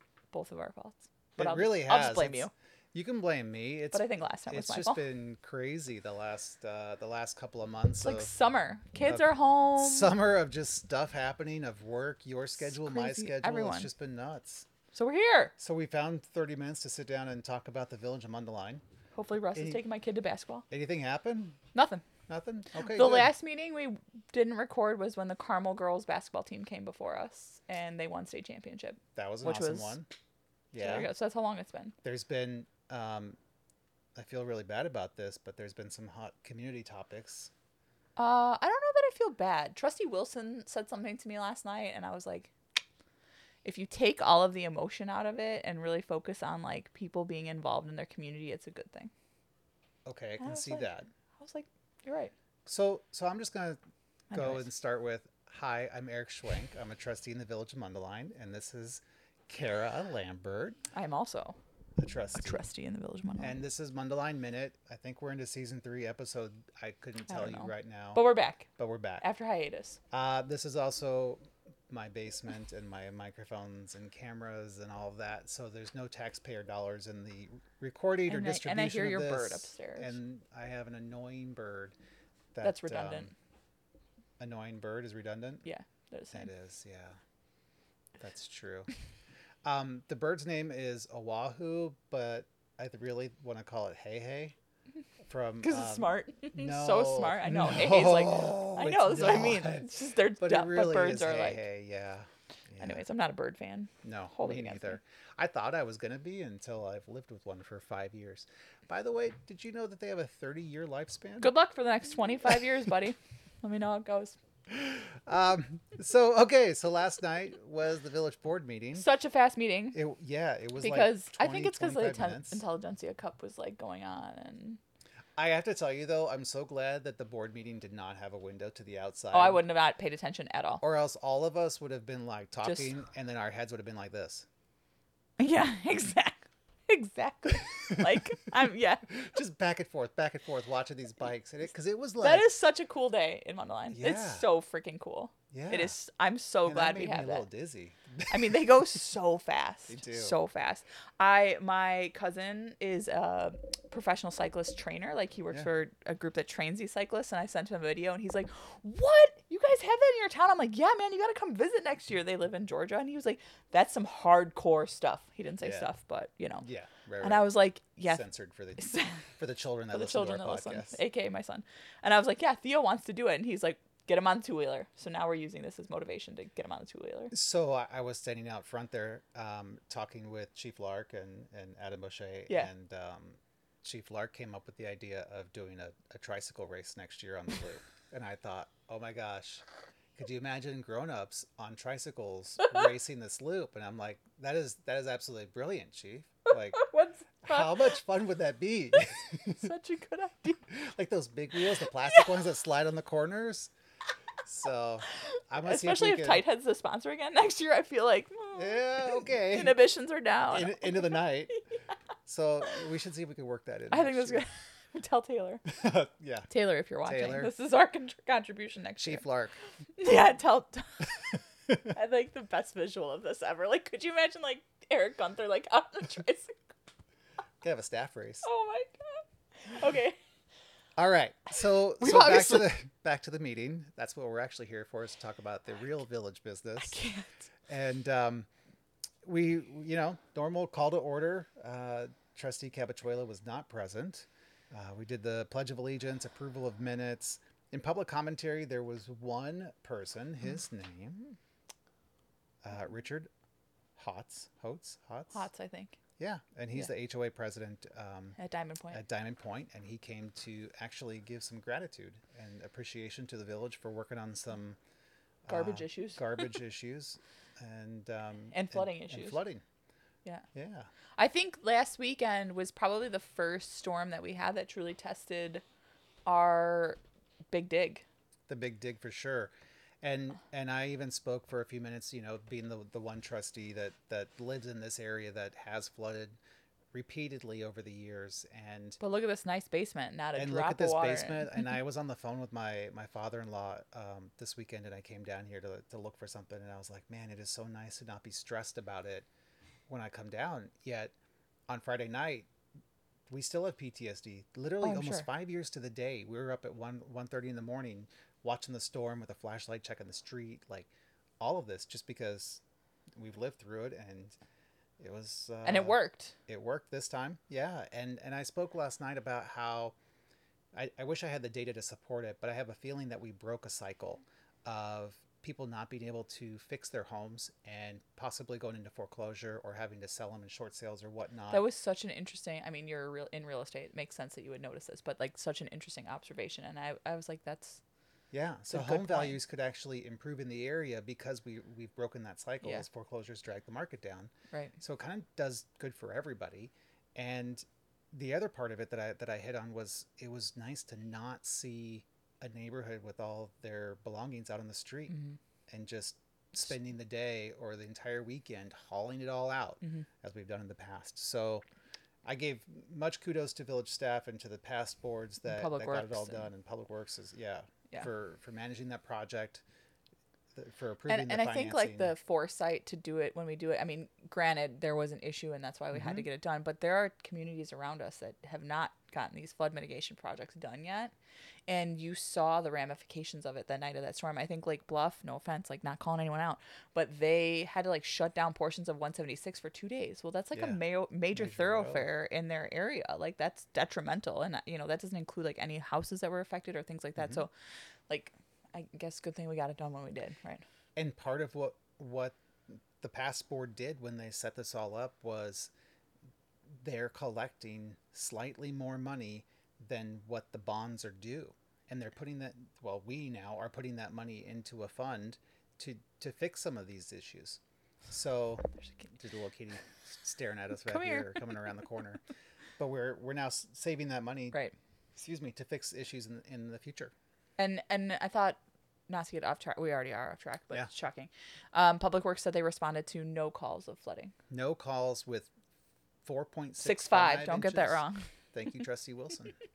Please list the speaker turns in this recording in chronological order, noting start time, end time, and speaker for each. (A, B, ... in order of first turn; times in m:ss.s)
0:00.3-0:02.5 A
0:01.4-0:08.3 B
0:03.9-0:05.0 A
0:08.0-0:10.1 A
0:09.1-0:14.7 B
0:12.6-0:13.9 A
0:14.9-0:15.5 A
0:15.6-0:18.8 B
0:19.1-0:20.6 A
0:19.6-0:19.8 B
0:20.7-0:21.6 B
0:21.7-0:22.1 A
0:22.3-0:23.3 B
0:22.8-0:30.0 A
0:29.2-0:30.1 B
0:30.7-0:31.1 B
0:30.8-0:32.0 A
0:32.0-0:33.4 B
0:34.2-0:37.5 B
0:38.2-0:42.5 A
0:43.6-0:49.1 A
0:50.0-0:51.1 B
0:50.4-0:52.3 A
0:52.7-0:53.8 B
0:54.3-0:54.6 A
0:54.3-1:00.8 B
1:00.9-1:01.6 A
1:02.0-1:02.7 B
1:02.4-1:03.6 A
1:03.4-1:09.2 B
1:07.3-1:08.7 A
1:09.2-1:10.0 A
1:10.1-1:22.0 B
1:18.3-1:20.2 A
1:22.5-1:23.3 B
1:22.6-1:23.3 A
1:24.4-1:25.6 B
1:25.6-1:26.5 A
1:26.3-1:27.2 B
1:28.2-1:28.9 B
1:29.6-1:34.6 B
1:35.2-1:43.0 B
1:35.6-1:41.6 A
1:42.8-1:45.0 A
1:44.0-1:51.5 B
1:51.4-1:54.4 A
1:54.7-1:59.1 B
1:59.0-2:00.0 A
1:59.9-2:02.6 B
2:00.8-2:04.8 A
2:05.4-2:09.6 B
2:09.3-2:10.8 A
2:10.8-2:14.5 B
2:12.6-2:13.0 A
2:15.4-2:19.1 A
2:17.8-2:18.3 B
2:19.1-2:22.5 B
2:22.2-2:27.5 A
2:23.9-2:24.5 B
2:25.5-2:26.0 B
2:26.6-2:28.6 B
2:28.3-2:46.6 A
2:29.9-2:30.4 B
2:45.6-2:45.9 B
2:46.6-2:47.5 B
2:47.2-2:48.2 A
2:48.0-2:51.0 B
2:48.8-2:49.2 A
2:49.9-2:57.3 A
2:57.3-3:09.6 B
3:10.2-3:16.9 B
3:16.8-3:17.9 A
3:17.4-3:19.7 B
3:19.5-3:20.6 A
3:20.7-3:23.7 B
3:24.4-3:26.4 B
3:25.6-3:31.2 A
3:28.6-3:29.8 B
3:30.5-3:31.6 B
3:32.3-3:34.4 B
3:33.9-3:35.6 A
3:35.7-3:36.5 B
3:36.5-3:39.2 A
3:37.0-3:37.5 B
3:39.0-3:39.6 B
3:40.0-3:41.3 A
3:41.8-3:46.6 A
3:47.6-3:48.5 B
3:48.4-3:50.2 A
3:51.0-3:57.0 B
3:52.0-3:52.7 A
3:56.8-3:57.3 A
3:57.7-3:58.5 B
3:59.2-4:11.4 B
4:12.6-4:13.3 B
4:14.0-4:15.5 B
4:15.3-4:16.0 A
4:16.2-4:18.4 B
4:18.4-4:19.0 A
4:18.9-4:24.8 B
4:25.4-4:29.6 B
4:25.5-4:26.4 A
4:28.5-4:29.4 A
4:30.5-4:30.9 B
4:31.2-4:35.6 A
4:36.3-4:37.0 A
4:37.5-4:38.0 A
4:38.5-4:46.4 B
4:46.9-4:49.0 B
4:49.0-4:51.6 A
4:50.4-4:59.3 B
4:59.9-5:01.1 B
5:01.7-5:02.5 B
5:03.3-5:12.6 B
5:04.8-5:05.3 A
5:13.2-5:14.4 B
5:15.0-5:20.0 B
5:15.6-5:16.4 A
5:20.7-5:31.6 B
5:31.5-5:37.8 A
5:38.3-5:55.2 B
5:38.7-5:39.4 A
5:55.7-6:01.6 B
6:02.2-6:09.6 B
6:05.4-6:06.5 A
6:10.6-6:12.1 B
6:11.1-6:21.1 A
6:15.9-6:16.2 B
6:21.7-6:37.5 A
6:30.5-6:30.8 B
6:31.3-6:32.1 B
6:37.2-6:37.4 B
6:38.1-6:40.6 A
6:41.0-6:45.7 B
6:46.8-7:02.2 B
7:00.9-7:01.5 A
7:02.8-7:04.6 B
7:05.2-7:07.1 B
7:07.6-7:08.6 A
7:09.1-7:14.3 A
7:14.5-7:15.5 B
7:16.2-7:18.0 B
7:16.8-7:18.3 A
7:18.5-7:19.6 B